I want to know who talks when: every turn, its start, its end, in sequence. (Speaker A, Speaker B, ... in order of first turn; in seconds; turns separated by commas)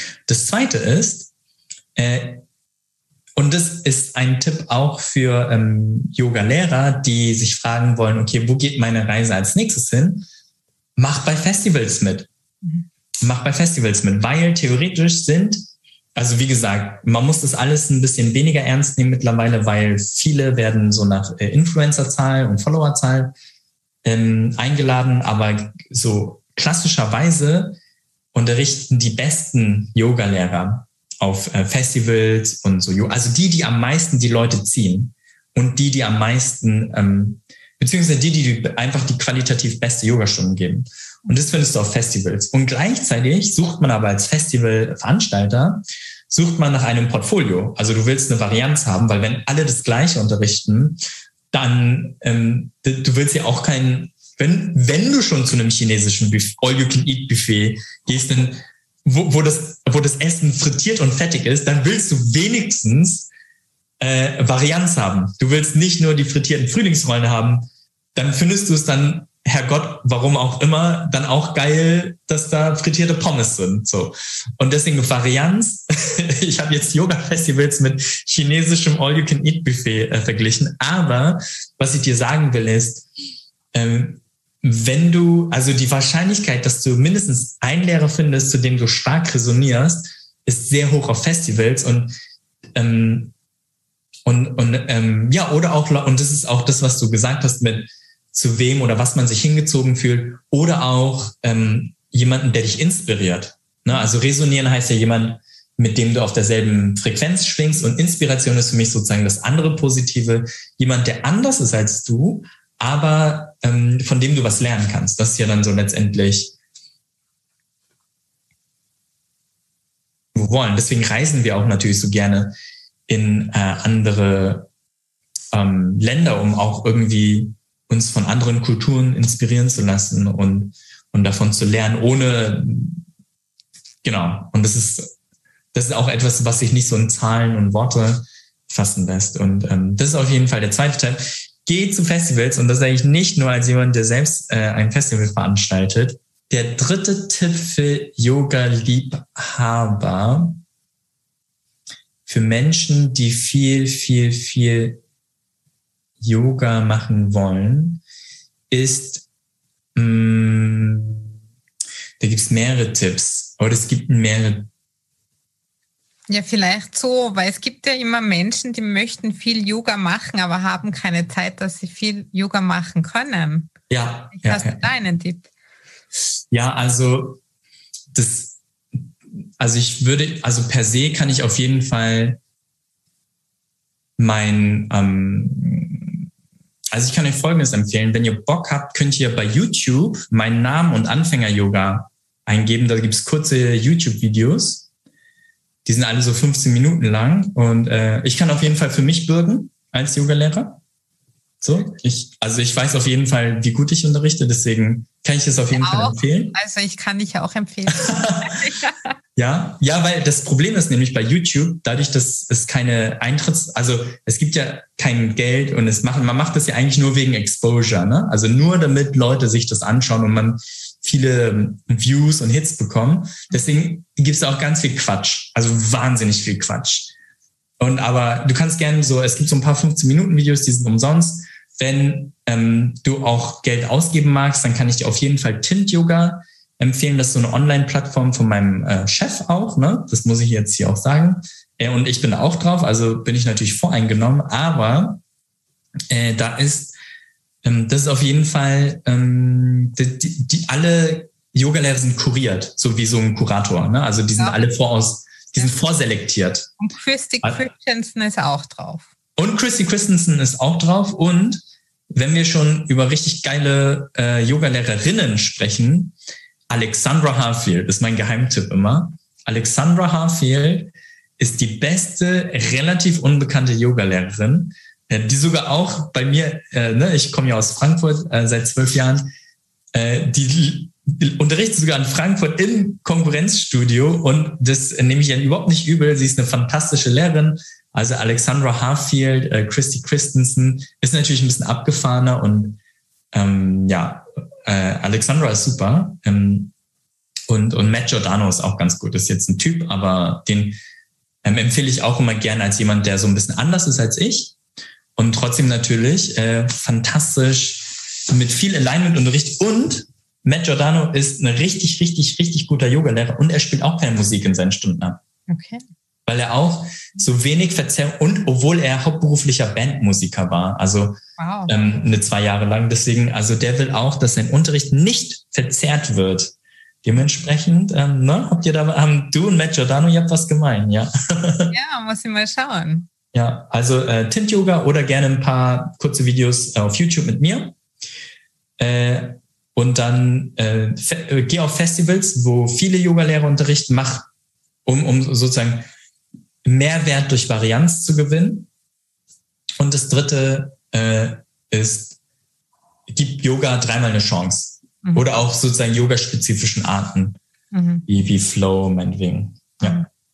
Speaker A: 0.3-1.3, Speaker A: 1.9-2.4, Speaker A: 3.4-10.3, Speaker A: 11.0-12.3, Speaker A: 13.2-15.6, Speaker A: 16.1-23.3, Speaker A: 24.0-27.8, Speaker A: 28.3-51.0, Speaker A: 51.5-63.3, Speaker A: 64.0-83.1, Speaker A: 83.7-92.1, Speaker A: 92.7-93.3, Speaker A: 94.2-116.5, Speaker A: 120.3-122.5, Speaker A: 123.1-124.7, Speaker A: 125.5-133.0, Speaker A: 134.0-135.1, Speaker A: 135.7-150.6, Speaker A: 152.2-155.0, Speaker A: 156.2-158.0, Speaker A: 158.7-159.2, Speaker A: 159.9-161.2, Speaker A: 162.2-164.7, Speaker B: 166.3-173.7, Speaker A: 173.9-174.9, Speaker B: 174.3-175.5, Speaker A: 176.5-177.4, Speaker A: 178.1-179.0, Speaker A: 179.6-182.4, Speaker A: 184.2-186.2, Speaker A: 186.9-194.9, Speaker A: 195.8-200.8, Speaker A: 201.6-206.5, Speaker B: 205.7-209.1, Speaker A: 207.9-208.5, Speaker A: 209.3-227.1, Speaker A: 227.8-245.2, Speaker A: 246.1-246.9, Speaker A: 247.6-256.7, Speaker B: 256.8-259.1, Speaker A: 259.4-261.6, Speaker A: 262.1-266.1, Speaker A: 266.7-279.3, Speaker A: 279.9-292.8, Speaker A: 293.3-296.7, Speaker A: 297.5-300.8, Speaker A: 301.4-304.5, Speaker A: 305.1-315.2, Speaker B: 315.5-315.8, Speaker A: 316.2-326.5, Speaker B: 321.4-321.9, Speaker A: 327.0-331.7, Speaker B: 331.7-333.1, Speaker A: 333.3-337.7, Speaker A: 338.8-344.3, Speaker A: 344.8-345.9, Speaker A: 346.6-348.7, Speaker A: 349.8-352.1, Speaker A: 353.1-357.4, Speaker B: 357.7-358.0, Speaker A: 358.1-360.0, Speaker B: 359.8-360.1